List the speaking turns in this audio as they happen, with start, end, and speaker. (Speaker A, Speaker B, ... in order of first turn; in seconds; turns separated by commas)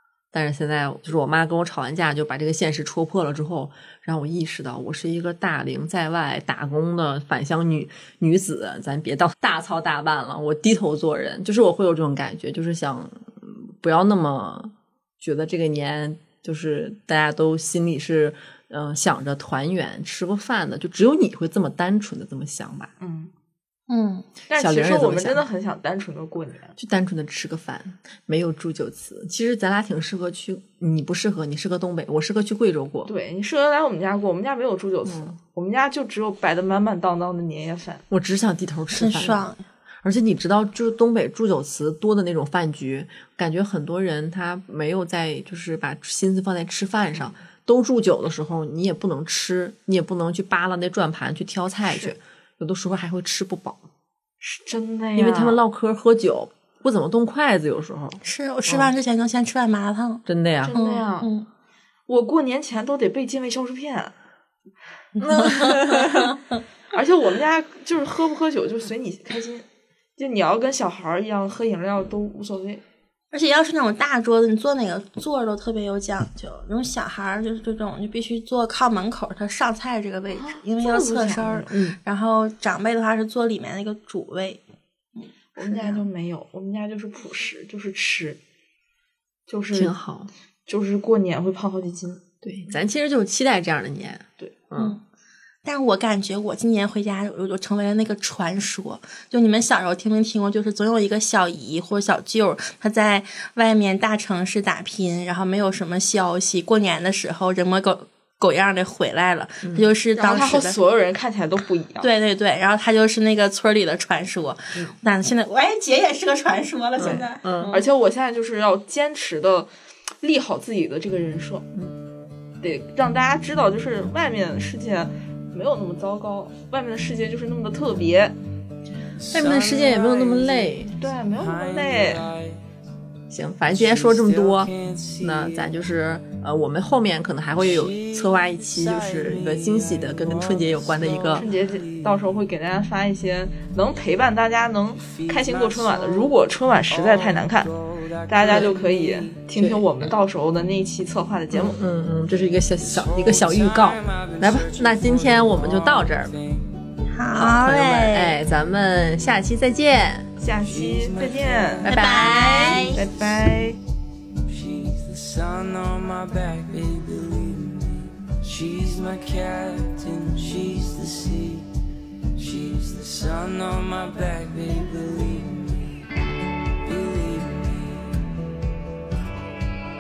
Speaker A: 0.3-22.9, Speaker B: 23.0-23.3, Speaker C: 23.9-24.3, Speaker B: 24.5-26.8, Speaker A: 24.6-25.4, Speaker A: 26.8-33.1, Speaker B: 33.1-38.0, Speaker A: 35.0-35.3, Speaker A: 38.1-39.4, Speaker C: 38.9-39.6, Speaker A: 40.0-53.8, Speaker B: 54.4-55.6, Speaker A: 55.1-58.9, Speaker C: 58.2-61.5, Speaker A: 60.2-60.8, Speaker B: 60.6-61.3, Speaker B: 62.1-64.1, Speaker C: 65.2-66.3, Speaker A: 65.2-66.4, Speaker B: 66.9-69.7, Speaker B: 70.2-72.8, Speaker C: 73.3-84.6, Speaker B: 80.3-81.7, Speaker A: 81.7-82.0, Speaker C: 85.2-86.0, Speaker B: 85.5-88.4, Speaker B: 89.5-89.9, Speaker A: 89.7-90.3, Speaker B: 90.7-92.2, Speaker A: 92.4-95.0, Speaker C: 95.6-110.8, Speaker B: 110.2-112.1, Speaker C: 112.0-117.8, Speaker A: 117.0-117.8, Speaker B: 117.0-119.7, Speaker B: 120.2-121.7, Speaker B: 122.6-128.4, Speaker D: 129.2-132.6, Speaker A: 129.3-130.9, Speaker B: 131.0-132.3, Speaker A: 133.3-141.4, Speaker D: 133.7-135.8, Speaker D: 137.6-142.2, Speaker B: 141.3-147.7, Speaker D: 145.0-146.3, Speaker D: 146.9-149.4, Speaker B: 148.3-151.8, Speaker A: 148.4-148.7, Speaker A: 149.6-149.8, Speaker A: 151.5-156.3, Speaker D: 152.8-156.8, Speaker C: 157.1-158.4, Speaker A: 157.3-160.3, Speaker B: 160.4-161.9, Speaker D: 160.6-162.5, Speaker A: 161.8-163.0, Speaker C: 161.9-163.0, Speaker B: 162.9-163.8, Speaker D: 164.4-171.7, Speaker D: 172.3-175.9, Speaker D: 176.8-178.3